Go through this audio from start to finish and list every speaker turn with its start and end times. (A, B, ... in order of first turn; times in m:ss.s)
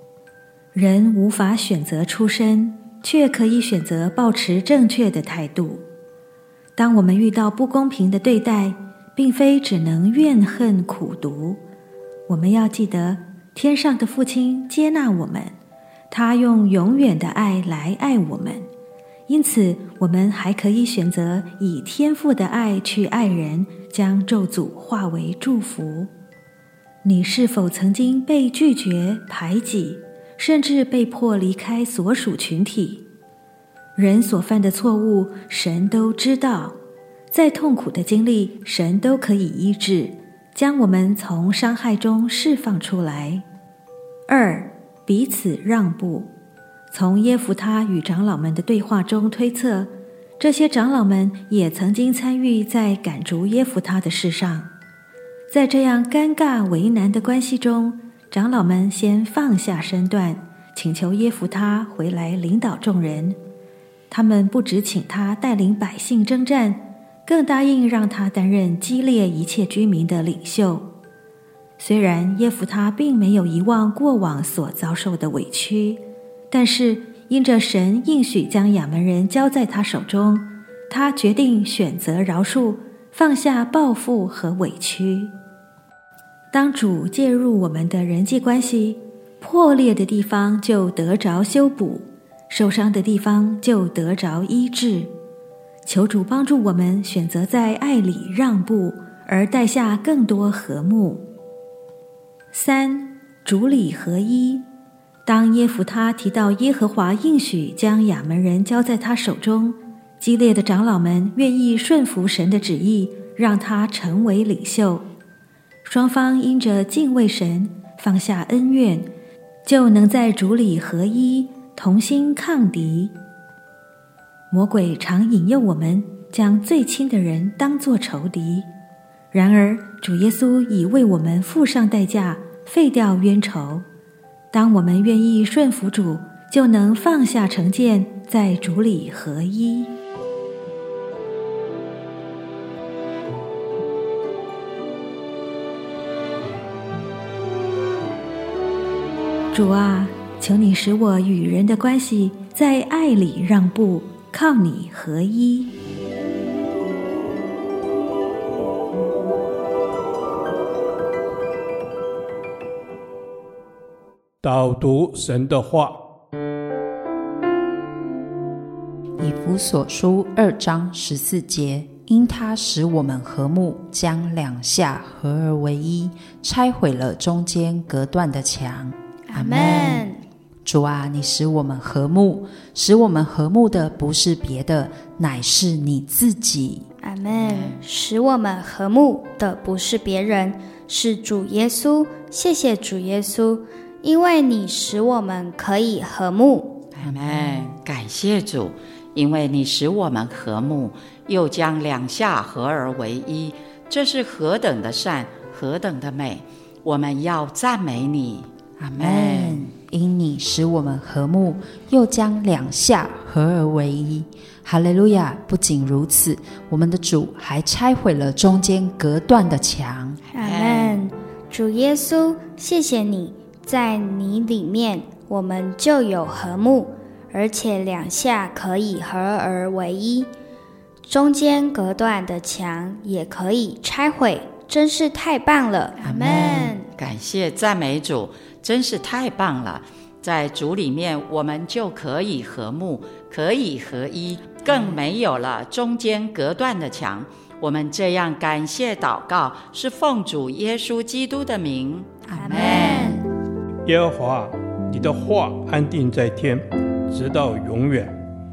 0:00.7-0:05.8 A
0:06.8-0:11.6 A
0:12.3-0:15.6 A
0:16.1-0:18.7 A
0:19.3-0:26.1 A
0:27.0-0:33.0 A
0:34.0-0:36.8 A
0:37.3-0:43.4 A
0:44.3-0:46.3 A
0:46.9-0:54.7 A
0:55.5-1:03.4 A
1:04.1-1:10.9 A
1:11.8-1:25.3 A
1:26.5-1:35.1 A
1:35.8-1:41.3 A
1:42.5-1:44.6 A
1:45.2-1:55.1 A
1:55.8-1:59.1 A
1:59.6-2:03.1 A
2:04.5-2:08.7 A
2:09.3-2:13.8 A
2:14.5-2:20.0 A
2:29.5-2:35.7 A
2:44.4-2:46.0 B
2:49.2-3:00.1 C
2:59.3-3:00.2 D
3:00.6-3:06.9 C
3:07.0-3:16.8 D
3:07.3-3:07.8 E
3:16.9-3:29.7 E
3:28.8-3:40.2 C
3:40.3-3:41.0 E
3:40.3-3:50.3 D
3:51.1-3:56.9 D
3:56.1-3:56.7 C
3:56.6-4:13.2 E
4:12.4-4:13.2 D
4:13.8-4:18.1 B